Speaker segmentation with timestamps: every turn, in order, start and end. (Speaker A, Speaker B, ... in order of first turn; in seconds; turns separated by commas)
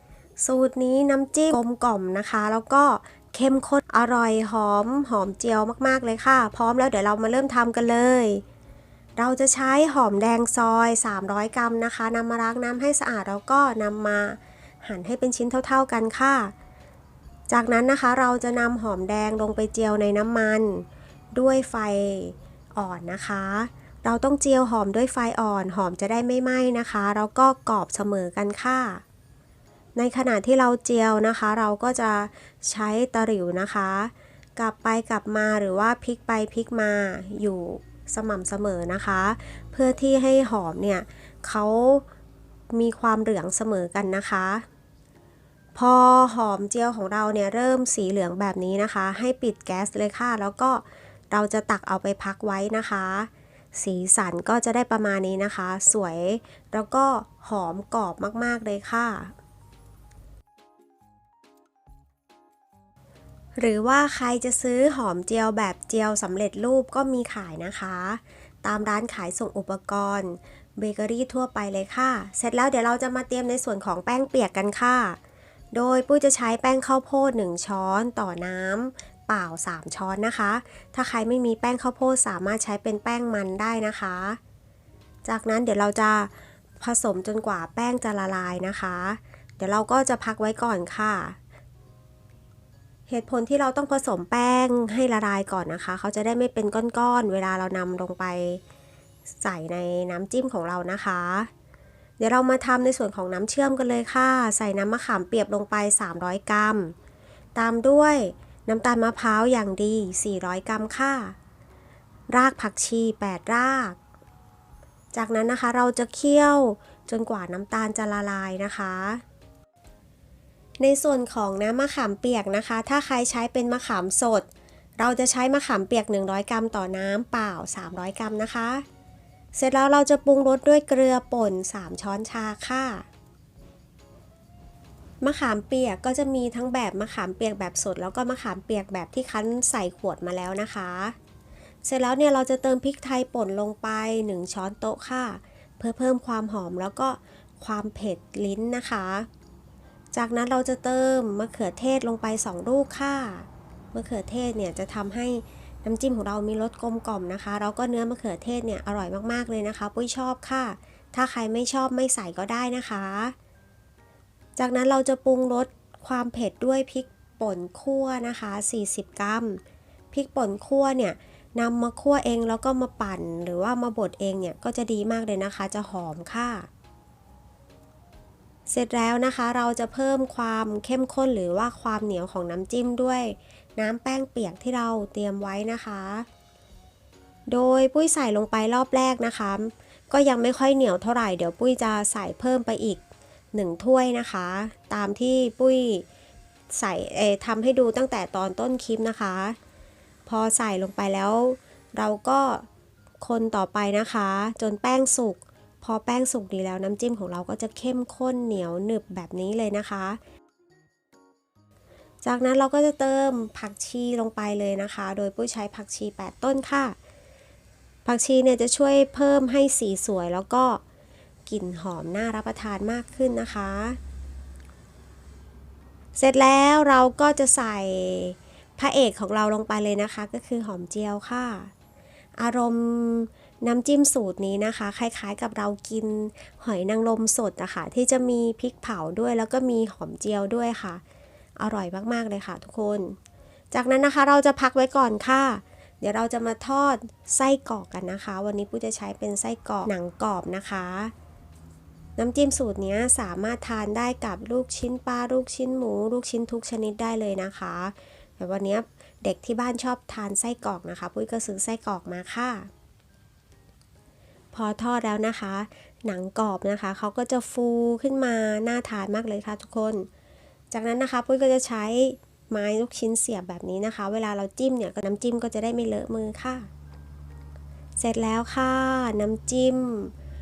Speaker A: 0.4-8.4, Speaker A: 9.2-16.5, Speaker A: 17.5-29.0, Speaker A: 29.9-42.0, Speaker A: 42.7-44.7, Speaker A: 45.8-59.3, Speaker A: 63.6-75.2, Speaker A: 75.7-84.4, Speaker A: 85.2-91.4, Speaker A: 93.1-98.6, Speaker A: 99.4-101.5, Speaker A: 102.2-106.9, Speaker A: 107.5-111.3, Speaker A: 112.3-114.0, Speaker A: 115.1-119.2, Speaker A: 120.8-124.5, Speaker A: 125.0-128.8, Speaker A: 129.5-133.1, Speaker A: 135.2-141.2, Speaker A: 141.8-149.3, Speaker A: 150.1-163.3, Speaker A: 164.6-176.7, Speaker A: 178.7-186.2, Speaker A: 187.5-193.0, Speaker A: 193.5-196.1, Speaker A: 196.7-199.6, Speaker A: 200.2-202.7, Speaker A: 203.2-210.2, Speaker A: 212.2-216.9, Speaker A: 218.0-220.8, Speaker A: 221.5-224.0, Speaker A: 226.2-231.7, Speaker A: 232.4-241.0, Speaker A: 241.6-243.2, Speaker A: 243.7-251.1, Speaker A: 252.2-262.7, Speaker A: 264.5-270.1, Speaker A: 270.7-276.7, Speaker A: 278.0-280.1